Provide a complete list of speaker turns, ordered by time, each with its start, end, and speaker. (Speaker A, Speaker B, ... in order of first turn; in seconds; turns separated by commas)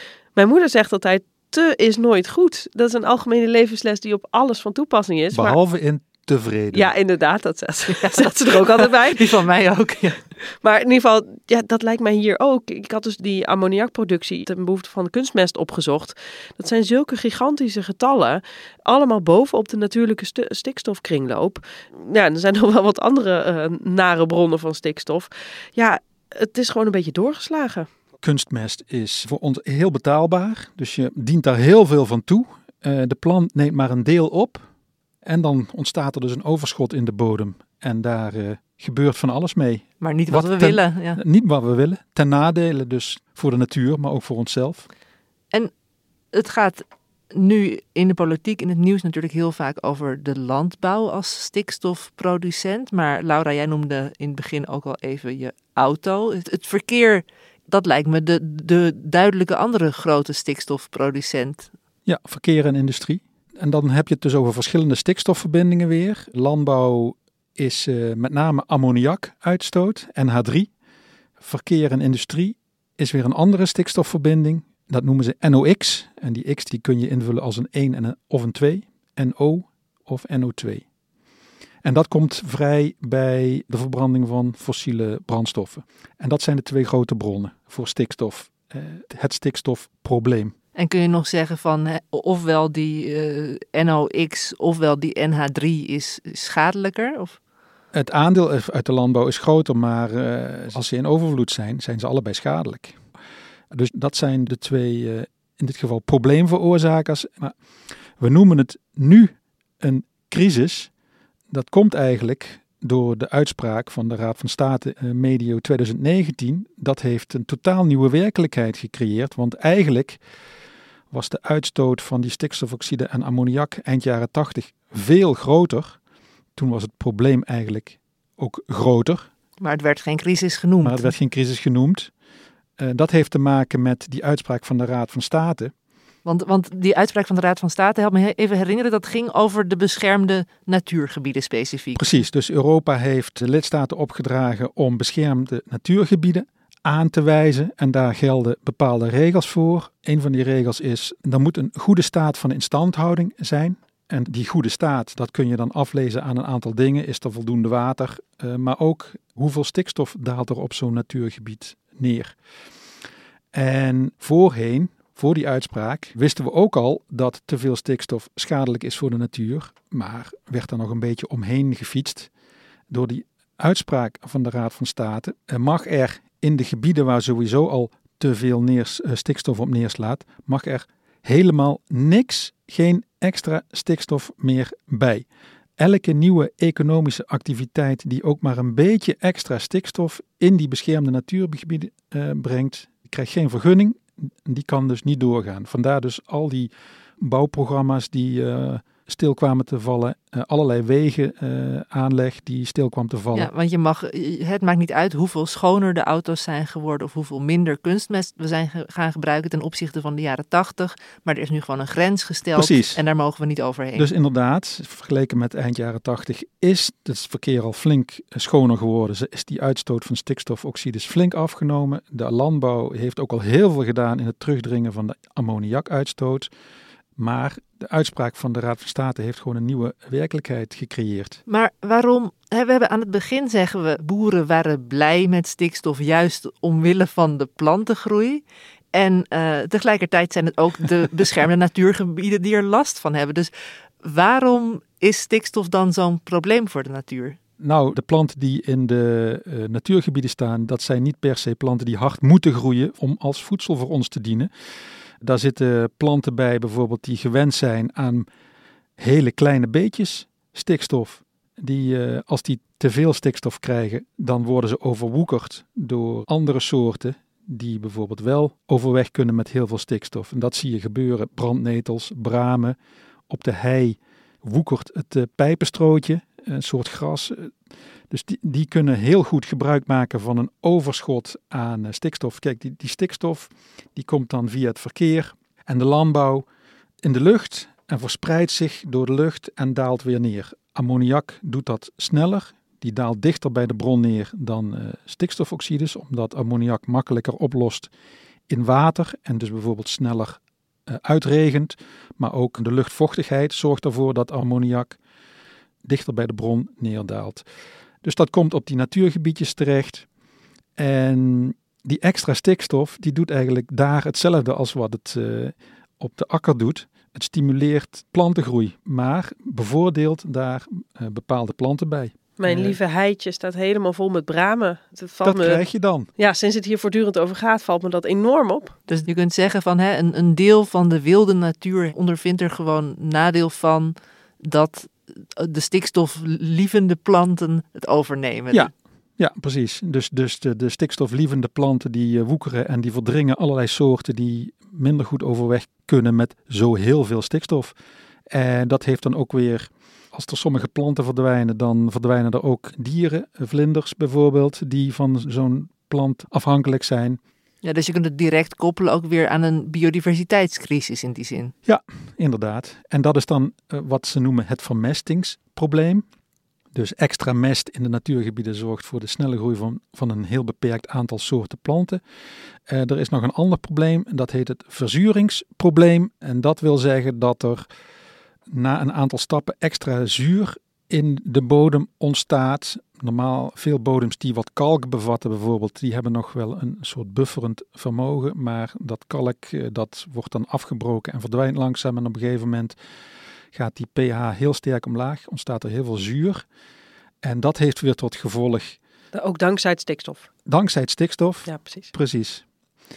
Speaker A: 0.3-5.6, Speaker B: 5.3-6.9, Speaker A: 6.7-9.4, Speaker C: 7.9-10.2, Speaker A: 10.6-27.9, Speaker B: 28.2-34.6, Speaker B: 35.2-44.9, Speaker C: 40.0-41.2, Speaker C: 46.3-61.7, Speaker B: 62.0-70.7, Speaker B: 71.4-80.8, Speaker B: 81.8-90.5, Speaker C: 90.7-97.4, Speaker B: 97.9-103.0, Speaker B: 103.7-107.6, Speaker B: 108.2-110.9, Speaker B: 111.5-120.2, Speaker B: 121.1-126.0, Speaker B: 126.5-129.3, Speaker C: 129.6-131.1, Speaker B: 130.8-132.1, Speaker B: 132.8-135.7, Speaker C: 136.2-142.0, Speaker B: 141.9-162.4, Speaker B: 163.5-172.3, Speaker B: 172.9-203.5, Speaker C: 203.3-214.1, Speaker B: 212.5-213.0, Speaker B: 213.9-226.5, Speaker B: 227.2-231.4, Speaker C: 231.5-243.5, Speaker C: 244.0-247.4, Speaker B: 247.6-254.5, Speaker B: 255.2-258.3, Speaker B: 259.0-272.8, Speaker B: 273.3-277.5, Speaker B: 278.1-286.5, Speaker B: 287.0-297.9, Speaker B: 298.5-305.0, Speaker B: 305.8-307.4, Speaker B: 308.0-310.1, Speaker B: 310.8-322.8, Speaker A: 322.4-325.6, Speaker B: 325.2-326.1, Speaker A: 326.2-328.8, Speaker C: 328.9-338.7, Speaker B: 338.5-347.8, Speaker B: 348.3-357.2, Speaker C: 357.6-361.5, Speaker B: 361.6-366.0, Speaker B: 366.7-372.0, Speaker B: 372.7-377.7, Speaker B: 378.5-392.8, Speaker B: 393.5-396.4, Speaker B: 397.2-398.8, Speaker A: 399.1-400.3, Speaker B: 400.5-402.4, Speaker A: 401.5-401.9